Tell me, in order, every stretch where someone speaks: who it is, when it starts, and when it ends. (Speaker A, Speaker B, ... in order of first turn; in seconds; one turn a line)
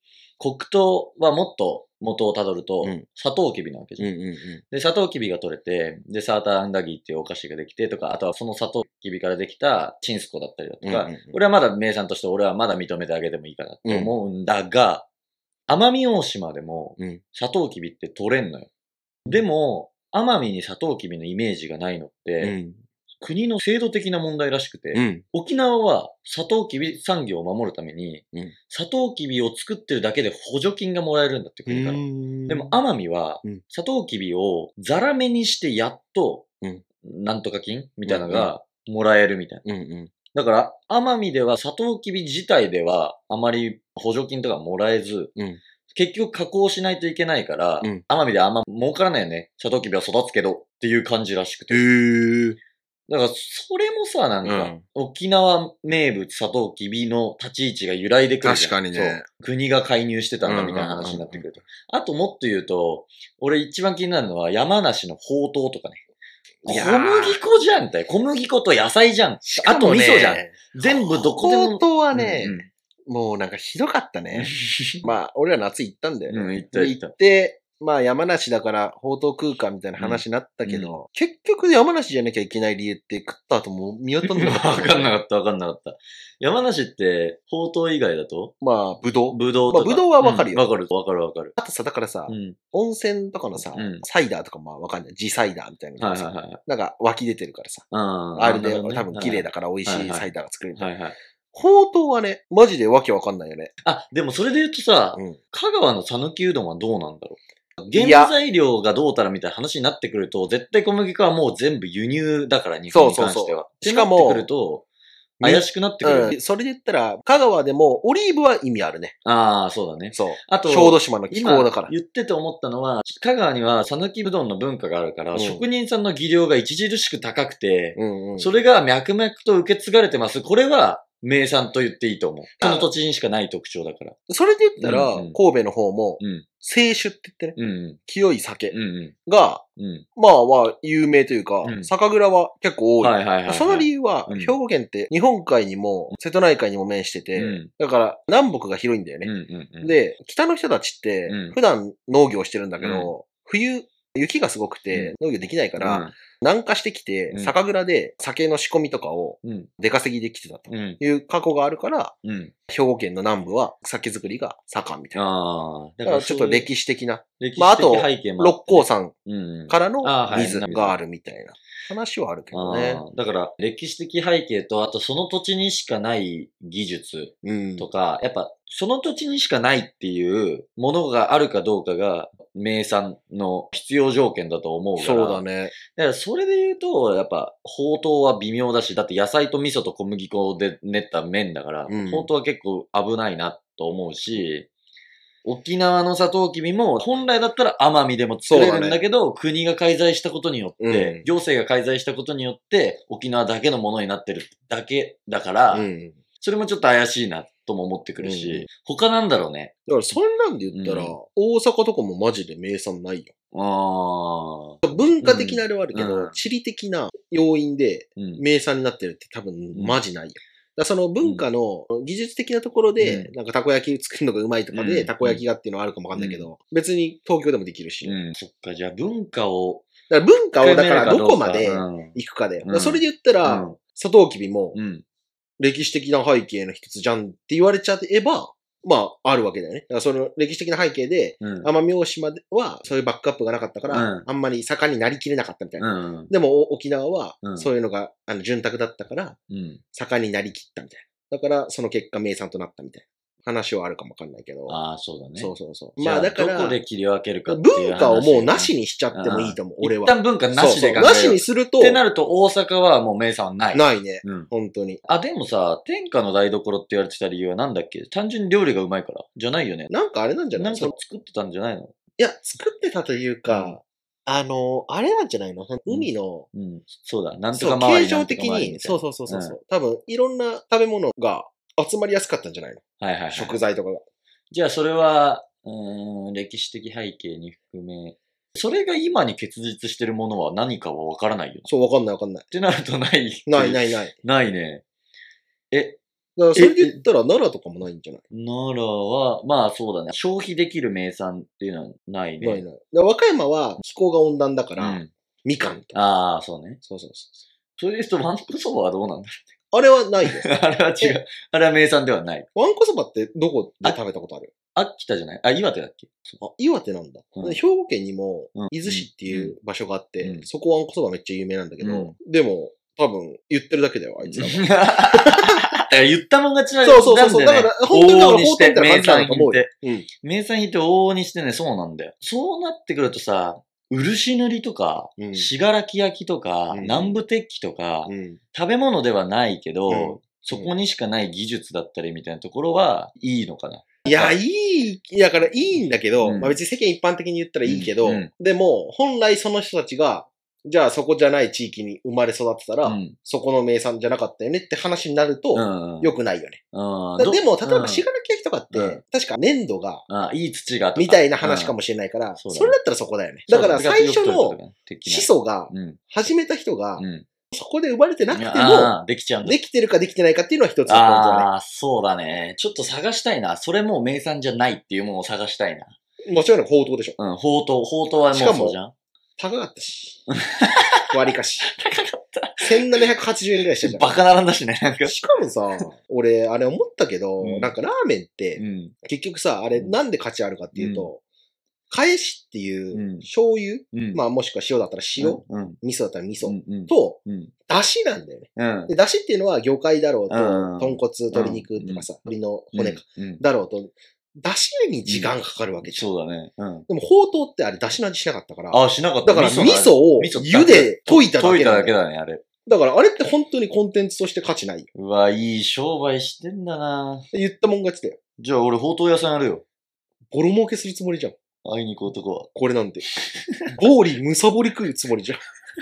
Speaker A: 0.4-4.1
Speaker B: 4.0-4.6
Speaker A: 4.7-15.1
Speaker B: 10.8-11.4
Speaker B: 13.9-14.1
Speaker A: 15.7-18.7
Speaker A: 19.3-22.6
Speaker B: 22.4-22.8
Speaker A: 23.2-36.5
Speaker B: 24.9-25.2
Speaker B: 31.7-32.8
Speaker A: 37.0-39.6
Speaker B: 38.1-38.5
Speaker B: 39.6-40.1
Speaker A: 40.3-45.3
Speaker A: 45.9-51.8
Speaker B: 51.7-52.6
Speaker A: 53.1-66.0
Speaker B: 54.4-54.8
Speaker B: 58.4-59.3
Speaker B: 60.4-61.6
Speaker B: 66.7-67.4
Speaker A: 66.7-72.7
Speaker B: 69.5-74.5
Speaker A: 74.3-75.0
Speaker B: 75.0-85.1
Speaker A: 76.3-77.1
Speaker A: 80.0-81.0
Speaker A: 84.2-88.5
Speaker B: 88.6-90.6
Speaker A: 89.3-91.5
Speaker B: 91.6-100.9
Speaker A: 92.3-92.6
Speaker A: 93.7-94.0
Speaker A: 96.0-96.6
Speaker A: 97.9-101.2
Speaker B: 101.5-103.7
Speaker A: 103.8-107.4
Speaker B: 107.8-108.3
Speaker A: 107.9-114.9
Speaker B: 112.9-114.5
Speaker B: 115.4-119.2
Speaker A: 115.4-116.3
Speaker A: 119.2-134.2
Speaker B: 120.1-121.9
Speaker B: 125.3-125.6
Speaker B: 128.0-128.5
Speaker B: 132.6-132.9
Speaker B: 134.3-138.7
Speaker A: 134.8-135.4
Speaker A: 136.2-136.5
Speaker A: 137.6-138.0
Speaker A: 138.7-139.2
Speaker B: 139.3-139.6
Speaker A: 139.8-140.1
Speaker B: 140.2-162.2
Speaker A: 141.6-141.9
Speaker A: 143.0-144.5
Speaker A: 147.4-147.7
Speaker A: 149.2-150.0
Speaker A: 151.3-151.6
Speaker A: 152.8-153.1
Speaker A: 155.8-156.2
Speaker A: 159.4-159.7
Speaker A: 160.7-161.0
Speaker A: 162.2-162.5
Speaker B: 162.7-165.2
Speaker A: 165.1-166.7
Speaker B: 166.1-169.1
Speaker A: 167.4-171.0
Speaker B: 169.7-173.0
Speaker A: 172.5-194.7
Speaker B: 177.4-177.9
Speaker B: 185.0-185.8
Speaker B: 191.9-192.3
Speaker A: 195.4-205.9
Speaker B: 198.5-199.0
Speaker B: 200.8-201.3
Speaker B: 205.7-206.2
Speaker A: 206.4-209.7
Speaker B: 208.2-208.7
Speaker B: 209.9-213.3
Speaker A: 210.7-211.2
Speaker A: 213.5-216.4
Speaker B: 214.8-228.2
Speaker A: 218.2-218.4
Speaker A: 219.7-220.0
Speaker A: 223.0-223.3
Speaker A: 224.7-225.4
Speaker A: 226.2-226.5
Speaker A: 228.0-229.8
Speaker B: 230.1-234.8
Speaker A: 230.6-233.8
Speaker A: 234.7-235.0
Speaker B: 235.6-249.4
Speaker A: 241.4-241.7
Speaker A: 243.9-244.3
Speaker A: 245.8-246.3
Speaker A: 247.4-247.7
Speaker A: 249.5-249.8
Speaker B: 249.9-254.8
Speaker A: 254.7-264.5
Speaker B: 255.4-256.8
Speaker B: 257.5-262.0
Speaker B: 263.7-265.0
Speaker A: 265.1-269.9
Speaker B: 269.9-271.0
Speaker A: 270.6-271.9
Speaker B: 272.2-276.5
Speaker A: 273.5-273.8
Speaker A: 275.9-279.6
Speaker B: 277.5-284.0
Speaker A: 283.0-283.6
Speaker A: 284.5-291.7
Speaker B: 291.7-292.5
Speaker A: 292.5-294.8
Speaker B: 293.5-294.1
Speaker A: 295.7-296.0
Speaker B: 296.4-298.2
Speaker A: 296.5-297.0
Speaker A: 298.3-302.6
Speaker B: 302.4-306.0
Speaker A: 304.8-305.1
Speaker A: 305.9-306.8
Speaker B: 306.8-307.4
Speaker A: 307.8-309.4
Speaker B: 309.7-310.5
Speaker A: 310.3-312.5
Speaker B: 312.6-314.5
Speaker A: 314.8-316.4
Speaker B: 316.4-325.6
Speaker A: 318.6-319.6
Speaker A: 321.8-322.1
Speaker A: 324.2-344.4
Speaker B: 326.8-330.1
Speaker B: 335.2-335.5
Speaker B: 336.7-337.2
Speaker B: 338.1-338.4
Speaker B: 339.9-340.7
Speaker B: 344.1-356.6
Speaker A: 346.2-346.6
Speaker A: 347.6-348.3
Speaker A: 352.8-353.2
Speaker A: 355.5-356.1
Speaker A: 356.7-358.1
Speaker B: 357.2-360.1
Speaker A: 358.7-359.0
Speaker A: 360.1-361.8
Speaker B: 361.0-371.5
Speaker A: 362.4-362.8
Speaker A: 363.5-366.0
Speaker A: 367.0-367.3
Speaker A: 368.3-369.6
Speaker A: 370.9-375.9
Speaker B: 376.3-377.2
Speaker A: 377.2-378.9
Speaker B: 378.3-378.8
Speaker B: 379.4-380.2
Speaker A: 380.3-381.1
Speaker B: 381.1-381.7
Speaker A: 381.6-383.0
Speaker B: 382.6-384.2
Speaker A: 383.8-385.2
Speaker B: 385.1-391.2
Speaker A: 387.4-387.7
Speaker A: 388.6-388.9
Speaker A: 390.8-391.1
Speaker B: 391.9-406.1
Speaker A: 392.9-393.3
Speaker A: 393.9-394.2
Speaker A: 395.2-395.8
Speaker A: 396.4-397.5
Speaker A: 398.6-398.9
Speaker A: 400.3-402.1
Speaker A: 402.7-403.4
Speaker A: 405.1-406.9
Speaker B: 406.9-411.9
Speaker A: 408.7-412.4
Speaker B: 412.7-414.9
Speaker A: 414.9-417.3
Speaker B: 417.3-418.2
Speaker A: 418.4-419.6
Speaker B: 420.3-421.4
Speaker A: 421.6-422.5
Speaker B: 422.6-423.0
Speaker B: 423.8-425.4